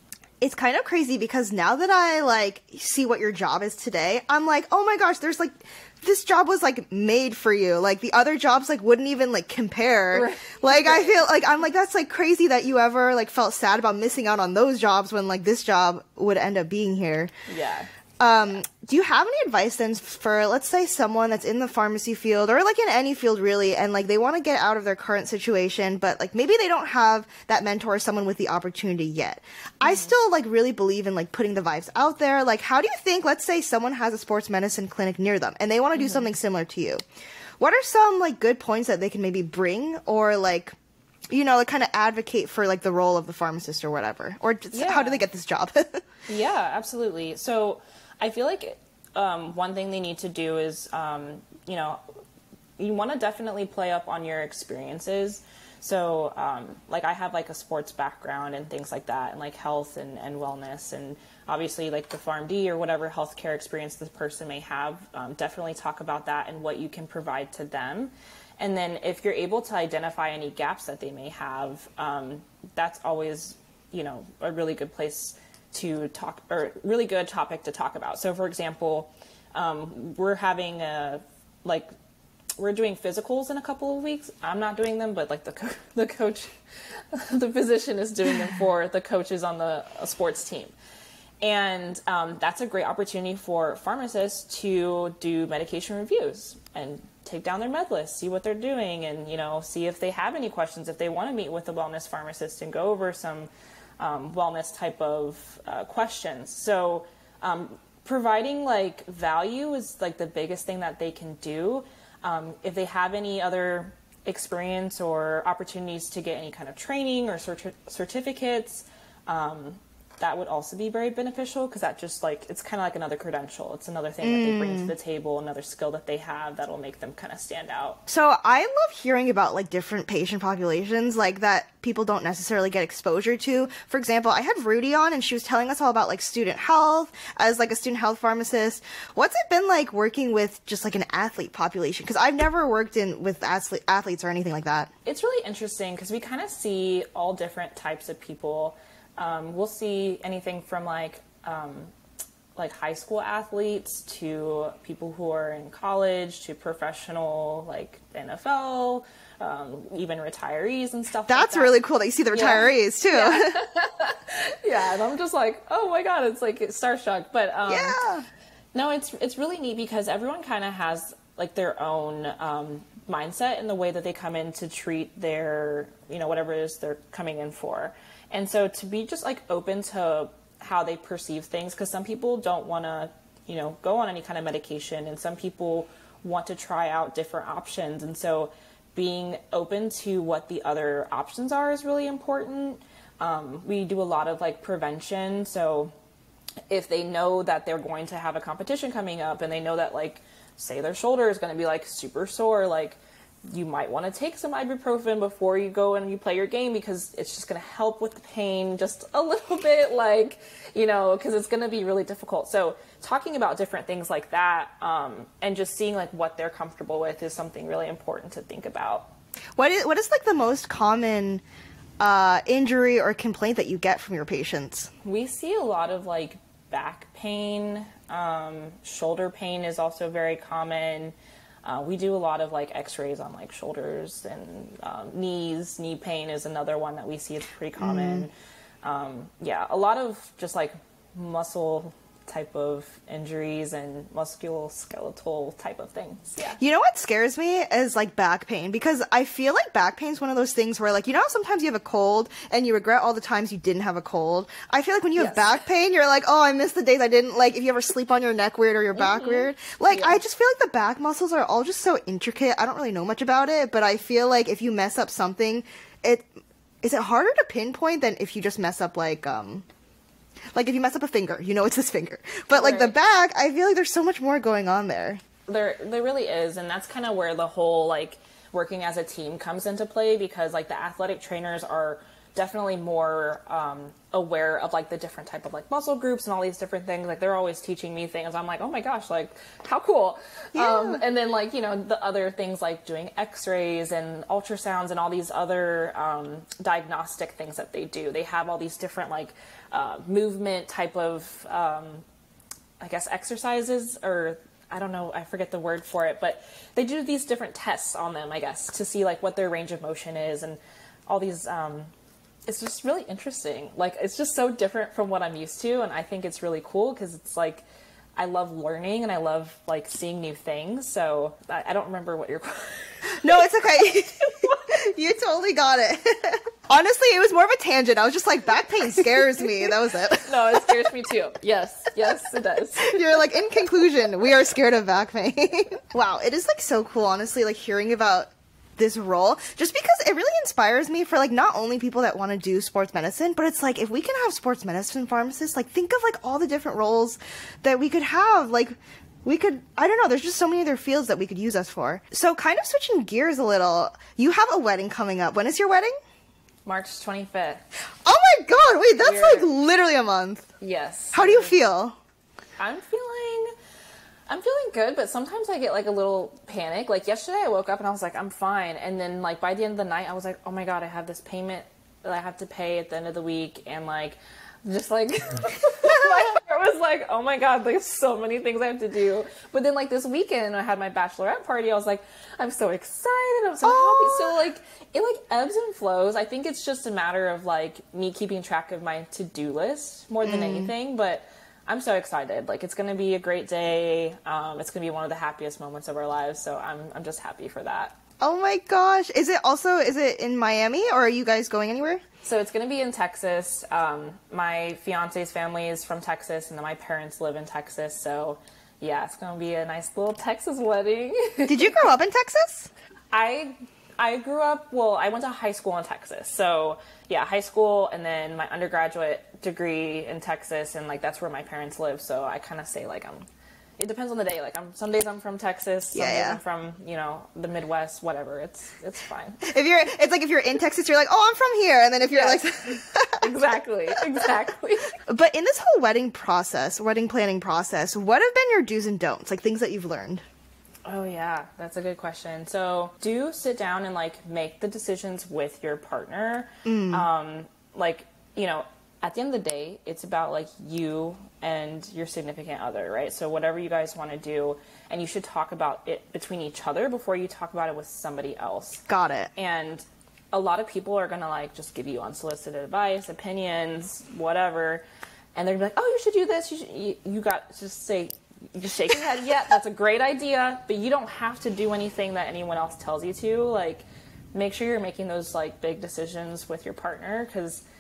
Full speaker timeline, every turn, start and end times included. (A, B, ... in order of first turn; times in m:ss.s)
0:00.4-0:17.3 A
0:10.1-0:11.2 B
0:17.5-0:17.9 B
0:18.2-0:37.0 A
0:29.8-0:30.1 B
0:36.0-0:36.3 B
0:37.6-0:40.8 A
0:41.3-0:46.0 A
0:44.7-0:45.2 B
0:46.3-0:52.0 B
0:52.8-1:21.9 B
1:22.6-1:26.5 B
1:27.1-1:30.7 B
1:31.4-2:08.0 B
2:04.2-2:04.9 A
2:08.1-2:24.9 A
2:25.0-2:31.9 B
2:32.6-2:41.7 B
2:41.3-2:43.6 A
2:42.3-2:48.0 B
2:47.7-2:48.3 A
2:48.7-3:15.9 B
3:16.7-3:39.1 B
3:39.6-3:41.4 A
3:42.0-3:44.9 A
3:45.0-3:58.3 B
3:57.8-3:58.3 A
3:58.8-4:06.6 B
4:06.6-4:26.3 A
4:15.2-4:15.6 B
4:19.0-4:20.2 B
4:26.8-4:29.7 A
4:30.5-4:35.2 A
4:32.5-4:32.9 B
4:35.5-5:02.0 B
4:50.6-4:51.0 A
5:02.8-5:11.9 B
5:12.5-5:17.6 B
5:18.2-5:24.6 B
5:23.2-5:30.7 A
5:29.4-5:29.7 B
5:30.2-5:33.2 B
5:32.8-5:56.0 A
5:56.6-5:57.6 B
5:58.0-6:00.5 A
5:59.0-5:59.5 B
6:00.6-6:01.6 B
6:01.1-6:02.0 A
6:02.6-6:03.5 B
6:04.3-6:38.0 B
6:23.6-6:24.4 A
6:30.2-6:30.7 A
6:38.2-6:42.0 A
6:42.2-6:51.9 B
6:51.5-6:52.7 A
6:53.1-7:09.5 B
7:05.9-7:06.4 A
7:09.4-7:13.3 A
7:12.1-7:12.4 B
7:13.2-7:15.0 B
7:15.1-7:20.2 A
7:20.8-7:38.8 B
7:26.6-7:27.1 A
7:38.9-7:39.3 A
7:39.4-7:44.8 B
7:45.4-7:57.6 B